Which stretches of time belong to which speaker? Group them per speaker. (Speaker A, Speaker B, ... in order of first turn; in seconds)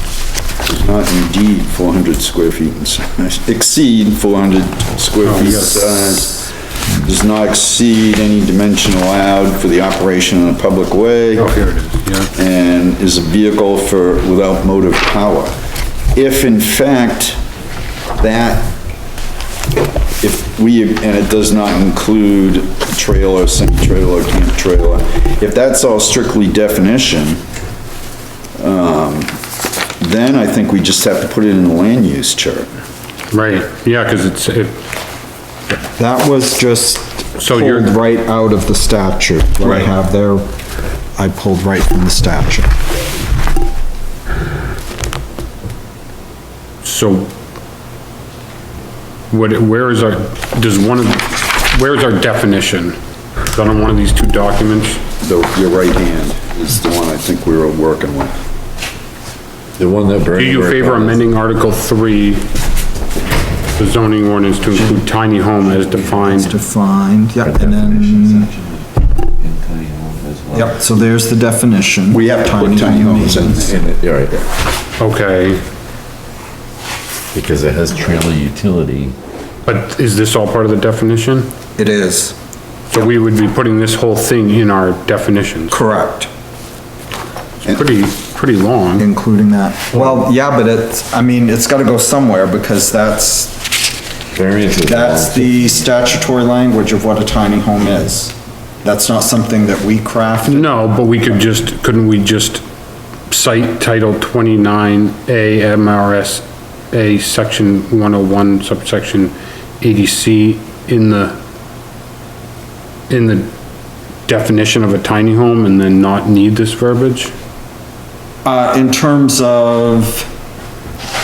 Speaker A: 0.7-11.5, 12.3-15.5, 16.1-17.4, 18.2-18.7, 20.2-27.4, 28.6-29.3, 30.0-32.7, 55.2-58.4, 72.1-73.9
Speaker B: 5.2-6.2, 11.3-12.3, 33.3-34.8, 37.4-37.9, 46.8-47.3, 49.3-53.0, 53.5-55.0, 60.4-62.5, 63.8-66.5, 75.0-75.6, 79.6-81.5, 82.9-85.8, 87.6-89.1, 89.9-90.2, 100.5-102.6, 103.3-111.4, 113.1-113.5, 114.2-117.3
Speaker C: 36.0-40.4, 41.1-42.7, 66.0-68.5, 70.5-73.7, 81.8-82.3, 85.7-86.3, 89.0-93.6, 94.8-100.8, 118.4-120.3
Speaker D: 59.8-61.2, 67.4-70.8, 73.6-74.4, 77.3-79.2, 94.3-95.8